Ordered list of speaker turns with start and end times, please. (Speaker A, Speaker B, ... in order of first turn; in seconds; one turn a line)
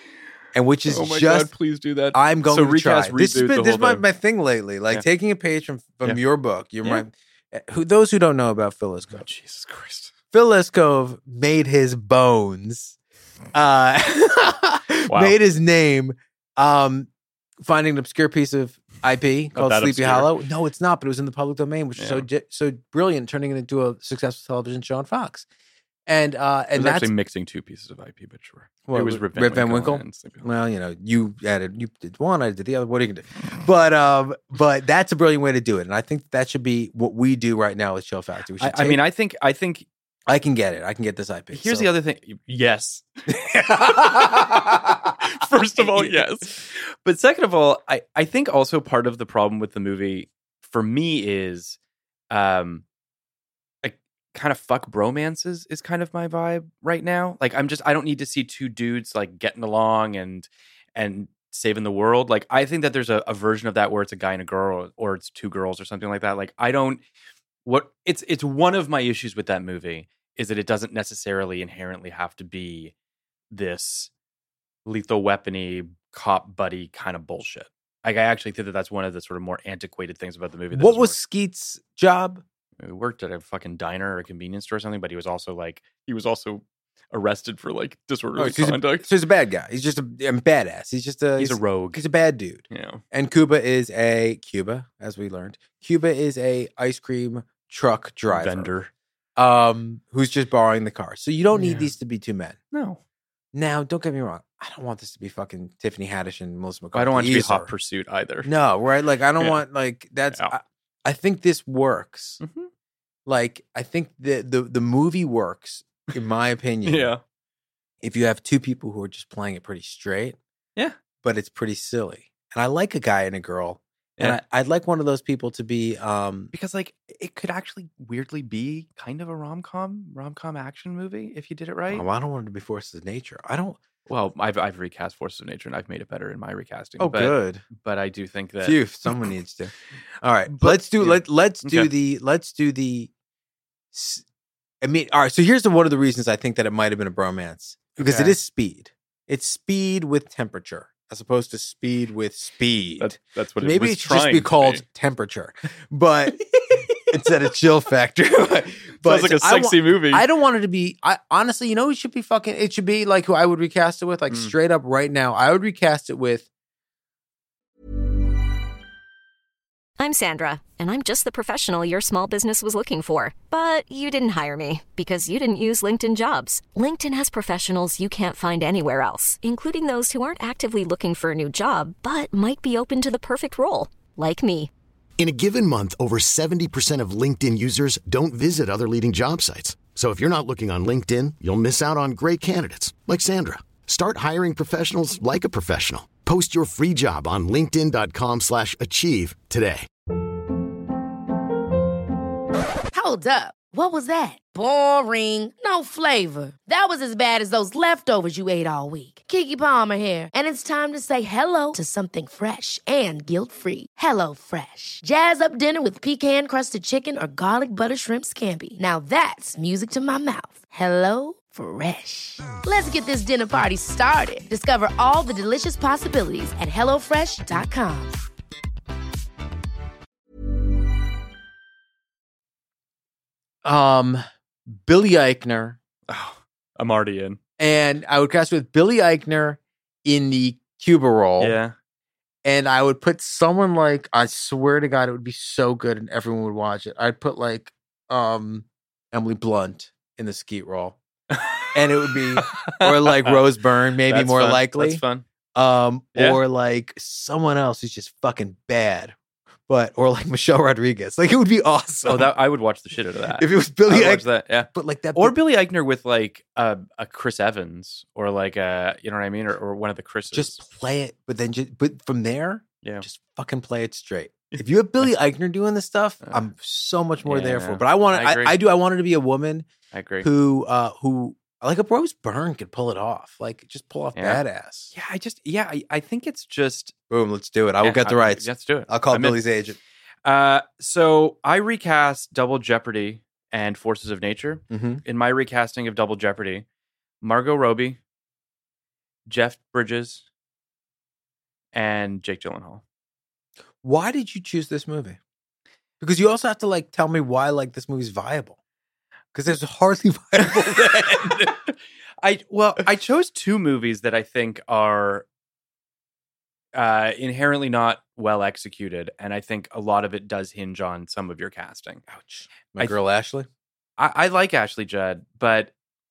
Speaker A: 0.5-1.5
Speaker B: 0.9-4.0
Speaker A: 2.1-9.2
Speaker B: 9.1-10.1
Speaker A: 10.3-13.0
Speaker A: 13.5-17.1
Speaker B: 15.1-15.4
Speaker A: 17.6-25.5
Speaker B: 19.5-20.3
Speaker B: 22.0-22.3
Speaker A: 26.1-27.1
Speaker B: 26.8-30.5
Speaker A: 28.9-39.0
Speaker B: 38.6-39.9
Speaker A: 40.3-41.9
Speaker B: 41.5-43.1
Speaker A: 43.3-45.1
Speaker B: 43.7-51.8
Speaker A: 45.8-46.2
Speaker B: 52.3-52.8
Speaker B: 53.8-67.0
Speaker B: 67.7-72.9
Speaker B: 73.5-74.1
Speaker B: 74.9-81.2
Speaker A: 80.7-82.4
Speaker B: 82.8-89.1
Speaker A: 88.4-98.7
Speaker B: 91.4-92.0
Speaker B: 92.7-93.0
Speaker B: 98.3-98.9
Speaker A: 99.4-102.6
Speaker B: 101.5-101.9
Speaker B: 102.7-103.0
Speaker A: 103.5-107.7
Speaker B: 106.9-108.5
Speaker A: 108.4-112.4
Speaker B: 112.4-112.7
Speaker A: 113.3-117.1
Speaker B: 116.8-117.2
Speaker A: 118.0-120.4
Speaker A: 121.2-126.5
Speaker B: 126.5-132.1
Speaker A: 131.9-133.8
Speaker B: 134.1-139.1
Speaker A: 137.0-137.7
Speaker A: 138.6-143.1
Speaker B: 140.5-141.9
Speaker A: 143.9-144.2
Speaker A: 144.8-156.5
Speaker B: 148.0-148.4
Speaker B: 153.0-154.8
Speaker B: 156.6-157.1
Speaker A: 157.1-166.5
Speaker B: 159.0-160.2
Speaker B: 164.3-164.6
Speaker C: 170.0-184.7
Speaker D: 185.2-199.9
Speaker E: 202.9-228.2
Speaker A: 233.6-235.8
Speaker B: 236.1-237.4
Speaker A: 237.6-241.6
Speaker B: 241.4-241.7
Speaker A: 242.4-251.0
Speaker B: 251.3-251.8
Speaker A: 251.7-255.0
Speaker B: 252.3-253.5
Speaker B: 254.1-255.2
Speaker A: 255.6-259.1
Speaker B: 256.1-256.4
Speaker A: 259.7-262.3
Speaker B: 262.1-270.6
Speaker A: 263.4-265.4
Speaker A: 270.3-279.7
Speaker B: 274.5-275.1
Speaker B: 277.2-278.6
Speaker B: 279.9-280.3
Speaker A: 280.2-284.9
Speaker B: 284.2-284.4
Speaker B: 284.9-286.9
Speaker A: 287.1-289.8
Speaker B: 287.8-289.4
Speaker B: 290.2-296.6
Speaker A: 294.7-295.0
Speaker B: 297.2-298.0
Speaker B: 299.3-300.3
Speaker B: 301.7-302.8
Speaker A: 303.8-305.2
Speaker A: 306.0-308.6
Speaker A: 309.3-311.5
Speaker B: 310.4-315.3
Speaker B: 316.7-322.0
Speaker A: 322.1-323.5
Speaker B: 324.0-325.7